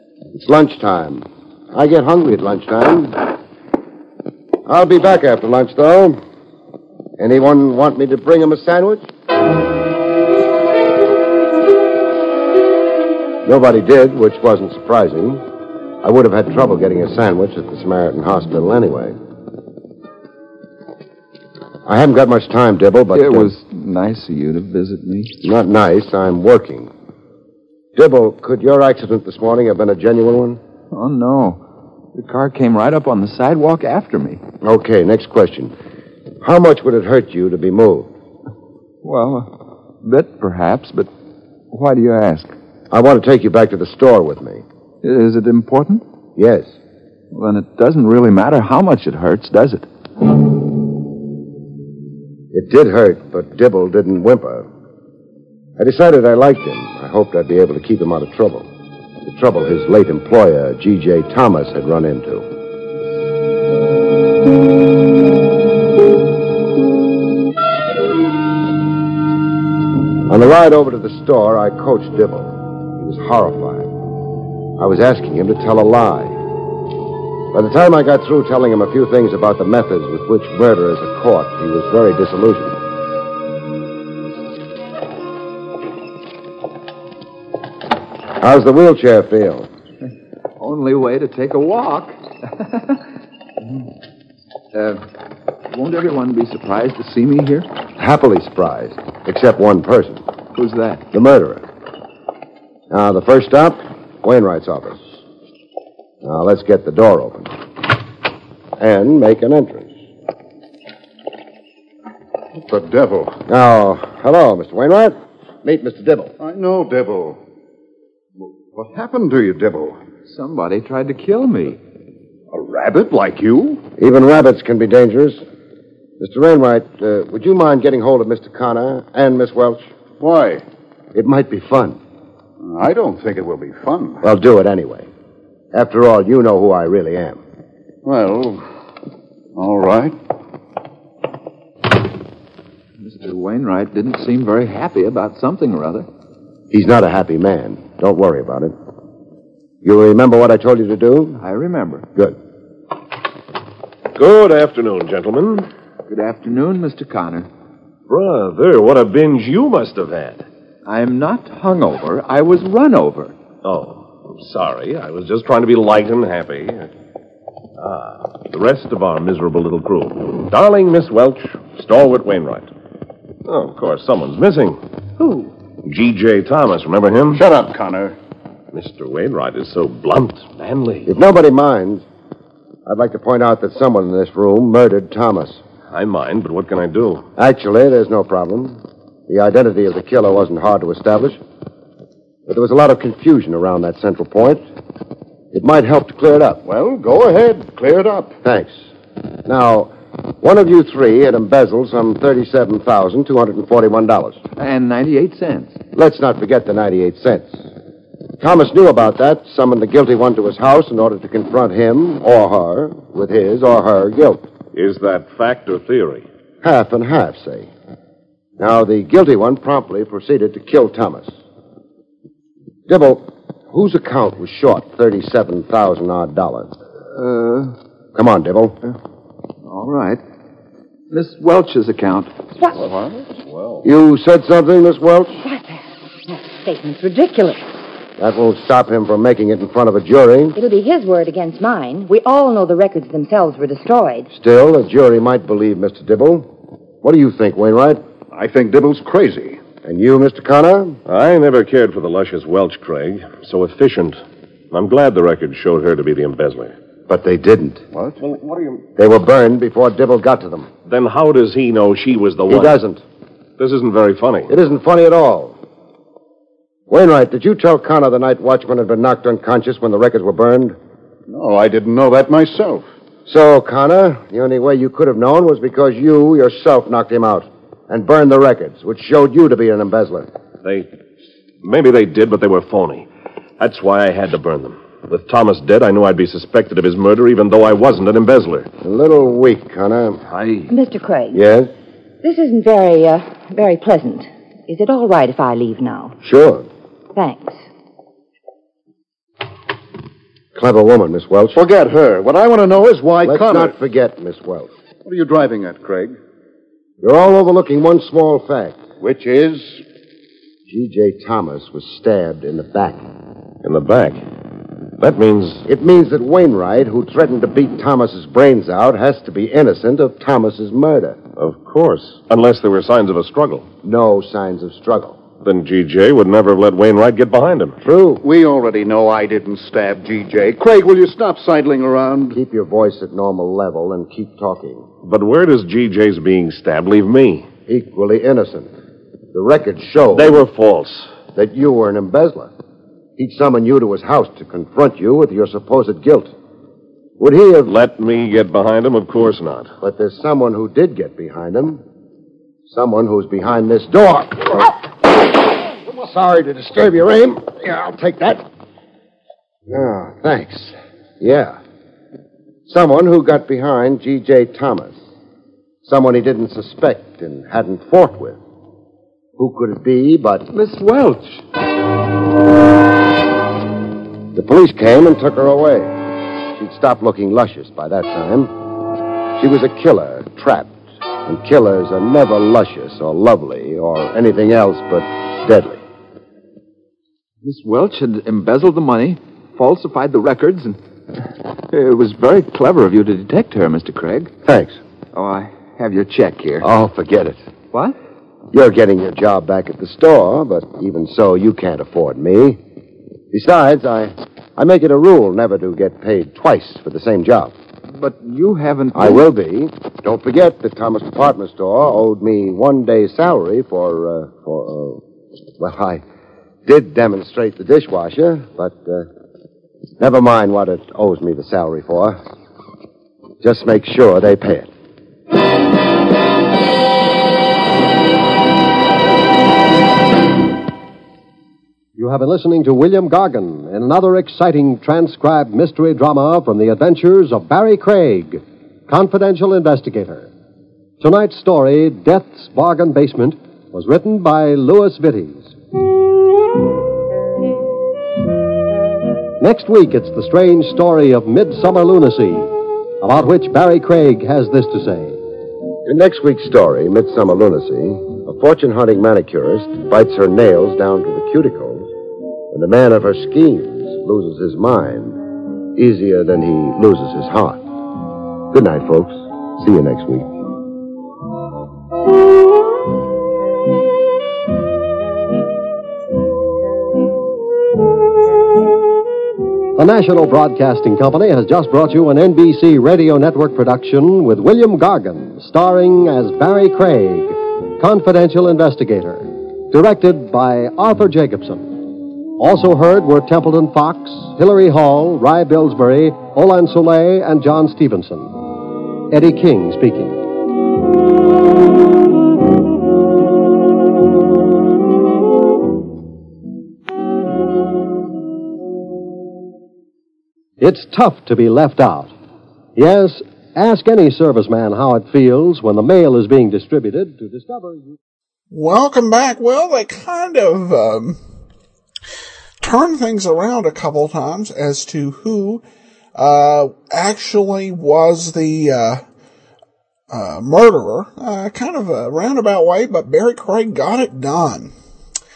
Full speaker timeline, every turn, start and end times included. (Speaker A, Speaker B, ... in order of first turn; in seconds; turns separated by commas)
Speaker A: 0.3-3.3, Speaker A: 4.6-6.2, Speaker A: 7.2-9.1, Speaker A: 13.4-15.4, Speaker A: 16.0-19.1, Speaker A: 21.8-23.5, Speaker B: 23.1-25.3, Speaker A: 25.4-26.9, Speaker A: 27.9-30.6, Speaker B: 30.9-31.6, Speaker B: 32.1-34.4, Speaker A: 34.6-35.7, Speaker A: 36.4-38.1, Speaker B: 39.0-41.1, Speaker B: 41.7-42.5, Speaker A: 42.9-44.6, Speaker B: 45.0-46.0, Speaker A: 46.4-46.8, Speaker B: 47.3-49.9, Speaker A: 52.5-54.7, Speaker A: 55.8-58.7, Speaker A: 59.2-62.5, Speaker A: 70.3-73.9, Speaker A: 74.8-76.4, Speaker A: 77.5-82.8, Speaker A: 88.4-89.7, Speaker B: 90.6-93.0, Speaker B: 94.7-95.0, Speaker B: 95.7-97.7, Speaker A: 98.0-100.2, Speaker B: 100.5-101.0, Speaker A: 101.1-101.6, Speaker A: 102.9-105.1, Speaker A: 106.2-107.5, Speaker A: 108.8-109.9, Speaker C: 112.7-113.4, Speaker A: 113.5-116.3, Speaker C: 116.4-117.4, Speaker C: 118.4-120.0, Speaker B: 120.3-121.8, Speaker C: 122.5-123.8, Speaker A: 124.0-125.4, Speaker A: 126.2-129.9, Speaker C: 130.2-130.6, Speaker A: 131.1-132.0, Speaker C: 132.6-134.2, Speaker A: 134.2-135.1, Speaker A: 135.7-137.4, Speaker C: 138.0-138.7, Speaker C: 139.6-140.2, Speaker B: 143.0-146.1, Speaker A: 146.7-148.7, Speaker A: 149.8-151.4, Speaker B: 151.4-152.0, Speaker D: 154.1-155.7, Speaker B: 156.1-157.5, Speaker D: 158.1-160.4, Speaker B: 160.8-163.3, Speaker D: 163.6-166.9, Speaker D: 167.8-172.7, Speaker D: 173.4-174.8, Speaker E: 175.2-175.5, Speaker D: 175.8-177.4, Speaker C: 177.3-178.2, Speaker D: 178.7-181.1, Speaker A: 181.1-182.0, Speaker A: 182.8-185.6, Speaker D: 185.9-187.2, Speaker A: 187.3-191.4, Speaker A: 192.5-194.6, Speaker A: 195.5-196.6, Speaker C: 196.6-198.4, Speaker A: 198.4-198.8, Speaker A: 199.4-204.4, Speaker B: 204.6-205.8, Speaker A: 205.9-207.7, Speaker A: 208.4-214.5, Speaker D: 214.7-216.2, Speaker A: 216.6-217.7, Speaker A: 218.6-221.3, Speaker A: 222.9-226.7, Speaker B: 227.1-227.7, Speaker A: 228.1-228.8, Speaker B: 229.6-230.2, Speaker B: 231.1-232.3, Speaker A: 233.8-235.4, Speaker E: 235.4-237.6, Speaker A: 238.2-240.6, Speaker E: 240.6-244.3, Speaker A: 244.3-246.5, Speaker A: 247.0-248.0, Speaker C: 248.3-249.6, Speaker A: 249.8-251.0, Speaker D: 251.1-256.7, Speaker A: 257.1-257.9, Speaker C: 257.9-258.2, Speaker D: 258.2-258.9, Speaker A: 258.9-260.7, Speaker D: 260.9-262.8, Speaker A: 262.5-263.0, Speaker D: 263.6-264.5, Speaker A: 264.5-265.6, Speaker A: 266.9-270.8, Speaker C: 271.3-272.8, Speaker A: 273.3-280.3, Speaker D: 280.6-280.9, Speaker D: 281.6-288.7, Speaker A: 288.8-290.2, Speaker D: 290.2-290.7, Speaker E: 290.7-291.4, Speaker A: 291.3-291.7, Speaker E: 292.2-296.1, Speaker A: 296.2-296.7, Speaker E: 297.1-297.6, Speaker A: 300.5-301.6, Speaker C: 301.5-303.7, Speaker A: 303.2-304.7, Speaker C: 305.0-306.1, Speaker A: 307.0-308.8, Speaker C: 309.0-309.8, Speaker A: 310.7-313.0, Speaker D: 313.6-314.2, Speaker D: 315.0-315.6, Speaker A: 315.7-321.2, Speaker D: 321.4-323.7, Speaker A: 323.8-325.2, Speaker D: 325.4-327.8, Speaker A: 327.8-328.2, Speaker C: 328.2-332.4, Speaker A: 332.3-334.9, Speaker D: 335.0-337.5, Speaker A: 337.7-338.7, Speaker A: 339.3-340.4, Speaker D: 340.1-341.1, Speaker A: 341.3-342.5, Speaker A: 343.2-346.3, Speaker A: 347.2-347.7, Speaker D: 347.6-349.7, Speaker A: 349.8-351.8, Speaker A: 352.7-354.9, Speaker A: 355.9-358.4, Speaker A: 359.7-361.6, Speaker A: 362.7-365.0, Speaker A: 365.8-368.4, Speaker A: 369.4-370.5, Speaker B: 370.5-371.4, Speaker A: 374.3-376.0, Speaker A: 376.5-378.5, Speaker A: 379.3-385.8, Speaker B: 387.4-390.8, Speaker B: 391.7-394.3, Speaker A: 394.4-394.8, Speaker B: 395.1-396.7, Speaker A: 396.6-397.4, Speaker A: 398.5-402.6, Speaker A: 403.3-407.5, Speaker B: 407.9-409.2, Speaker A: 408.9-415.0, Speaker A: 415.6-416.0, Speaker A: 416.6-419.1, Speaker A: 420.0-422.2, Speaker A: 423.4-424.7, Speaker F: 432.0-440.3, Speaker F: 441.0-445.5, Speaker F: 449.4-455.2, Speaker A: 455.8-461.9, Speaker A: 462.5-465.2, Speaker A: 465.8-467.6, Speaker A: 468.5-470.3, Speaker F: 479.8-498.4, Speaker F: 499.1-500.2, Speaker F: 510.6-512.1, Speaker F: 512.8-518.0, Speaker G: 518.5-521.2, Speaker G: 522.6-525.6, Speaker G: 526.1-529.0, Speaker G: 530.1-534.7